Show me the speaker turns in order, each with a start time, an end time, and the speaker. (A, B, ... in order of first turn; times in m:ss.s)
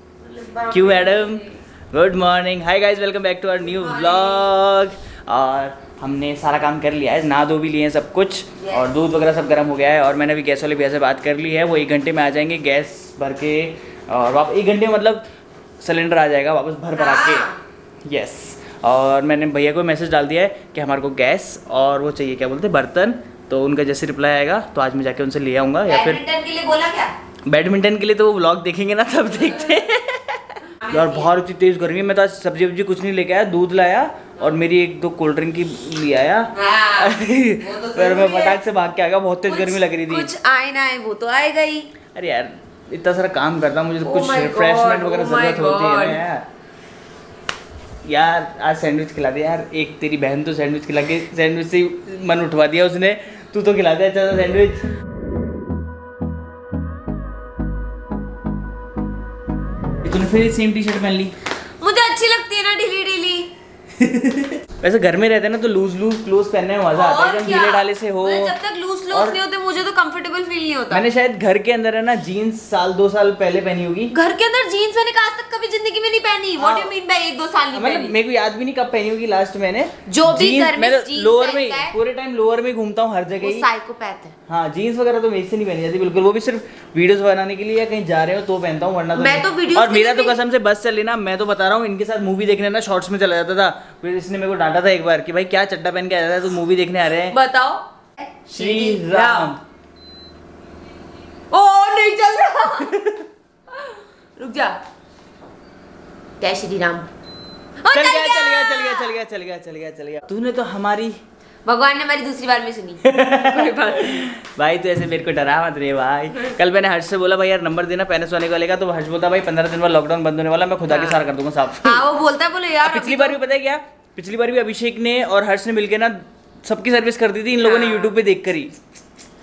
0:00.2-0:01.6 A
0:00.7-0:15.3 B
0:03.8-0:04.6 A
0:08.6-0:08.9 A
0:15.8-0:17.5 B
0:16.9-0:17.6 A
0:18.1-0:26.2 B
0:25.9-0:27.1 A
0:27.5-0:40.3 B
0:30.8-0:31.3 A
0:36.5-0:38.6 A
0:39.5-0:41.9 A
0:42.1-0:46.5 B
0:44.0-0:46.2 A
0:48.0-0:54.9 B
1:00.0-1:01.3 B
1:01.8-1:03.5 A
1:04.0-1:08.6 B
1:06.9-1:11.0 A
1:09.1-1:09.4 B
1:10.9-1:14.1 B
1:14.1-1:18.1 A
1:16.6-1:16.9 B
1:17.7-1:23.7 B
1:20.1-1:22.0 A
1:23.4-1:24.3 A
1:24.5-1:37.4 B
1:29.1-1:30.4 A
1:37.3-1:39.5 A
1:38.5-1:39.6 B
1:41.5-1:43.0 A
1:43.7-1:44.8 A
1:46.4-1:47.1 A
1:47.8-1:49.1 A
1:47.9-1:51.2 B
1:51.6-1:54.2 A
1:53.0-2:02.1 B
2:00.9-2:01.2 A
2:01.8-2:03.4 A
2:02.8-2:08.8 B
2:07.6-2:08.1 A